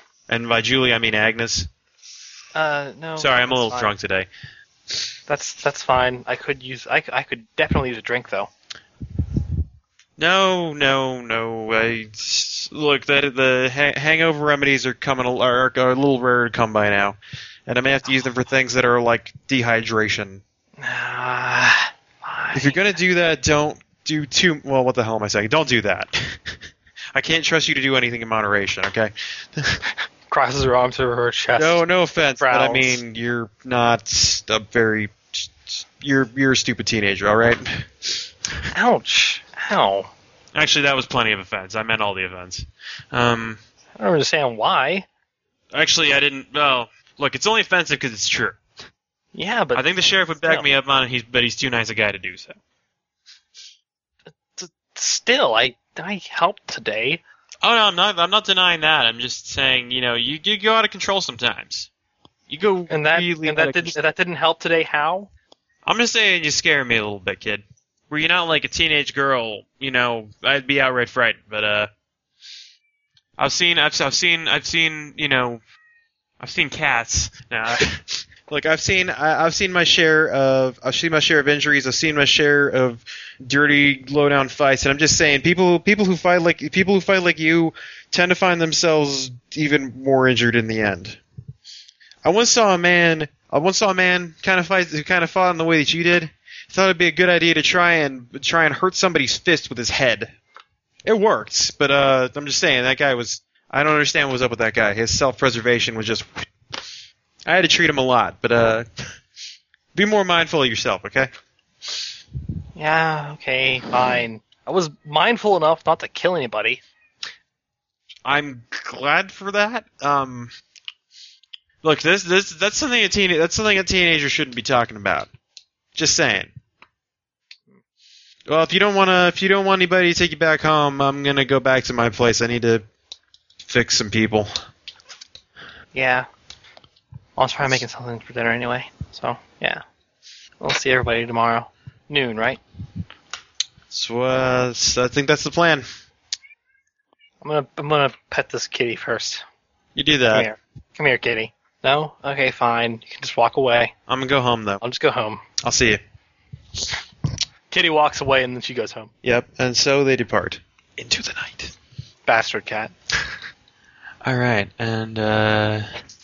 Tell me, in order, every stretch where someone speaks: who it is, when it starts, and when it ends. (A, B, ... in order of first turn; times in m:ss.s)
0:00.3-0:01.7 A
0:02.5-0:03.9 B
0:03.2-0:04.3 A
0:05.3-0:08.5 B
0:10.2-0:20.4 A
0:18.0-0:18.3 B
0:20.8-0:22.8 B
0:22.5-0:26.4 A
0:27.1-0:29.8 A
0:30.3-0:31.8 B
0:31.6-0:38.6 A
0:32.4-0:33.0 B
0:38.7-0:40.1 B
0:40.5-0:43.6 A
0:44.0-0:45.0 B
0:45.7-0:48.6 A
0:49.3-0:49.8 B
0:49.7-0:52.6 A
0:54.6-0:57.2 B
0:57.6-1:01.9 A
1:02.5-1:03.9 A
1:02.9-1:05.3 B
1:05.8-1:11.9 A
1:13.4-1:15.6 A
1:16.4-1:31.2 A
1:32.2-1:40.3 A
1:41.0-1:46.4 A
1:47.4-1:48.9 A
1:49.9-1:51.3 A
1:52.8-1:56.8 B
1:58.2-2:00.5 A
2:01.8-2:05.3 A
2:05.9-2:06.5 A
2:08.5-2:12.8 A
2:13.6-2:14.5 A
2:15.9-2:16.3 B
2:17.4-2:19.8 B
2:20.6-2:22.6 B
2:23.9-2:25.8 A
2:27.4-2:29.4 B
2:29.9-2:30.5 A
2:30.3-2:33.9 B
2:34.1-2:34.8 A
2:34.8-2:35.4 B
2:35.6-2:36.0 A
2:37.7-2:39.1 B
2:39.2-2:41.7 A
2:42.2-2:42.9 B
2:44.2-2:46.0 A